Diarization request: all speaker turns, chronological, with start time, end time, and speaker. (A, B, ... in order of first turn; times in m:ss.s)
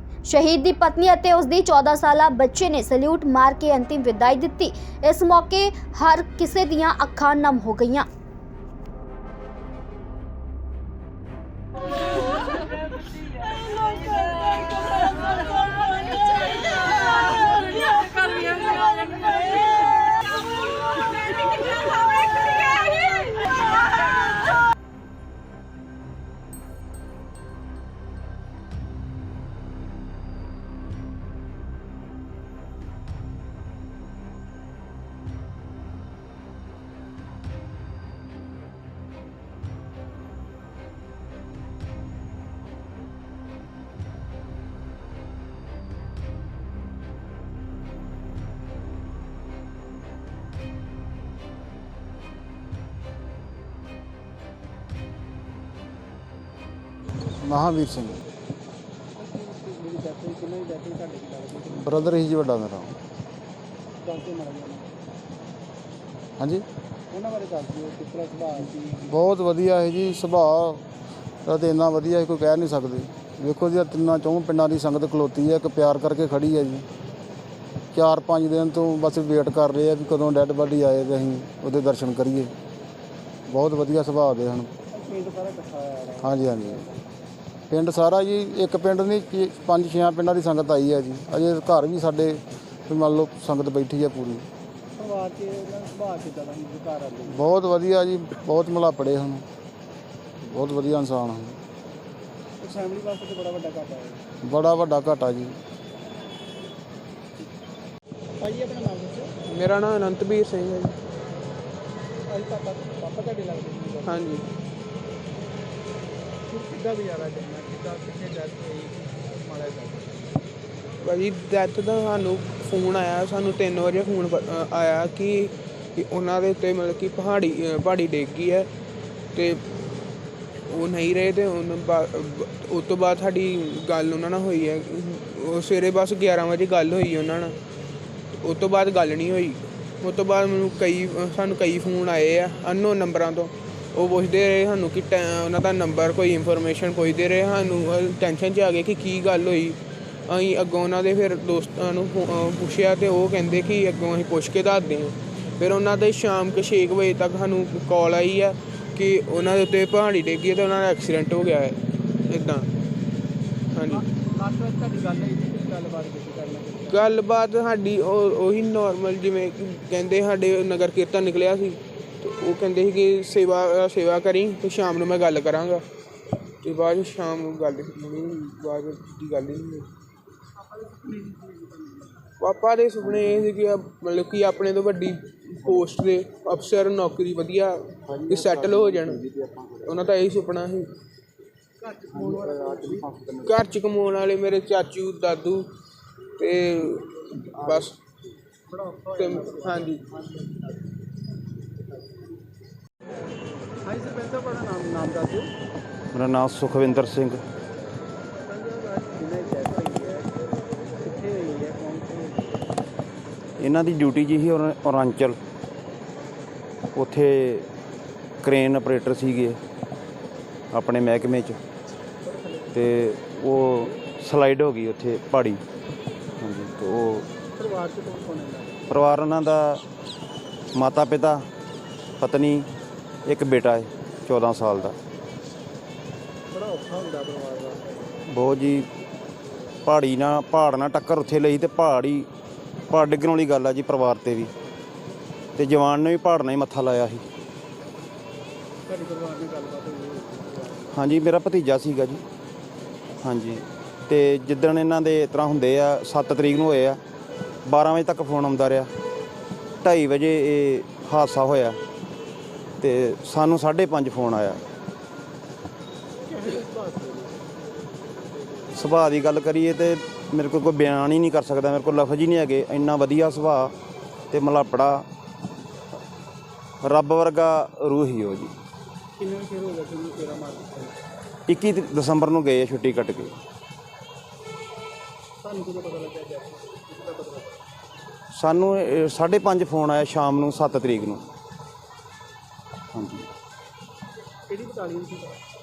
0:00.2-0:08.0 A
0:57.4-0:58.2 B
0:59.2-1:01.8 C
1:01.7-1:02.9 B
1:04.0-1:05.0 C
1:06.4-1:06.6 B
1:07.1-1:08.8 C
1:08.7-1:10.8 B
1:11.4-1:16.8 B
1:17.9-1:22.5 B
1:23.5-1:24.7 B
1:24.9-1:26.8 C
1:26.2-1:26.9 B
1:27.7-1:34.4 B
1:35.0-1:37.4 C
1:37.3-1:39.4 B
1:40.4-1:41.6 B
1:42.6-1:44.2 C
1:44.4-1:45.6 B
1:48.4-1:49.3 C
1:49.5-1:51.0 D
1:52.3-1:54.2 C
1:54.0-1:54.5 D
1:56.5-2:00.2 C
2:01.0-2:08.7 D
2:09.3-2:09.6 D
2:10.7-2:17.6 D
2:18.3-2:42.7 D
2:43.7-2:44.0 D
2:43.9-2:47.0 C
2:46.9-2:55.8 D
2:56.6-2:59.9 D
3:00.8-3:01.7 C
3:02.4-3:10.9 D
3:11.8-3:13.1 C
3:13.4-3:15.7 D
3:16.4-3:18.0 D
3:18.7-3:20.5 C
3:19.2-3:20.0 D
3:23.8-3:25.5 C
3:26.1-3:27.4 E
3:28.4-3:30.3 C
3:31.0-3:32.4 C
3:33.6-3:35.4 E
3:36.9-3:37.7 E
3:38.4-3:39.6 E
3:40.7-3:41.6 E
3:42.2-3:42.7 C
3:42.7-3:45.6 E
3:46.4-3:47.3 E
3:47.6-3:48.8 C
3:48.9-3:49.8 E
3:50.7-3:51.4 E
3:52.2-3:52.7 E
3:53.2-3:55.0 E
3:56.5-3:57.8 C
3:58.3-3:58.9 E
3:59.8-4:02.3 E
4:02.9-4:04.5 E
4:05.6-4:07.2 E
4:08.9-4:10.9 C
4:10.9-4:12.2 E
4:13.2-4:17.0 E
4:17.6-4:18.9 E
4:19.8-4:21.8 E
4:22.8-4:24.6 E
4:26.3-4:27.3 C
4:28.7-4:33.7 E
4:34.3-4:35.0 E
4:36.8-4:38.5 E
4:39.2-4:40.9 C
4:41.5-4:43.3 E
4:45.4-4:47.5 C
4:48.3-4:51.2 E
4:52.9-4:53.3 E
4:54.5-4:55.4 C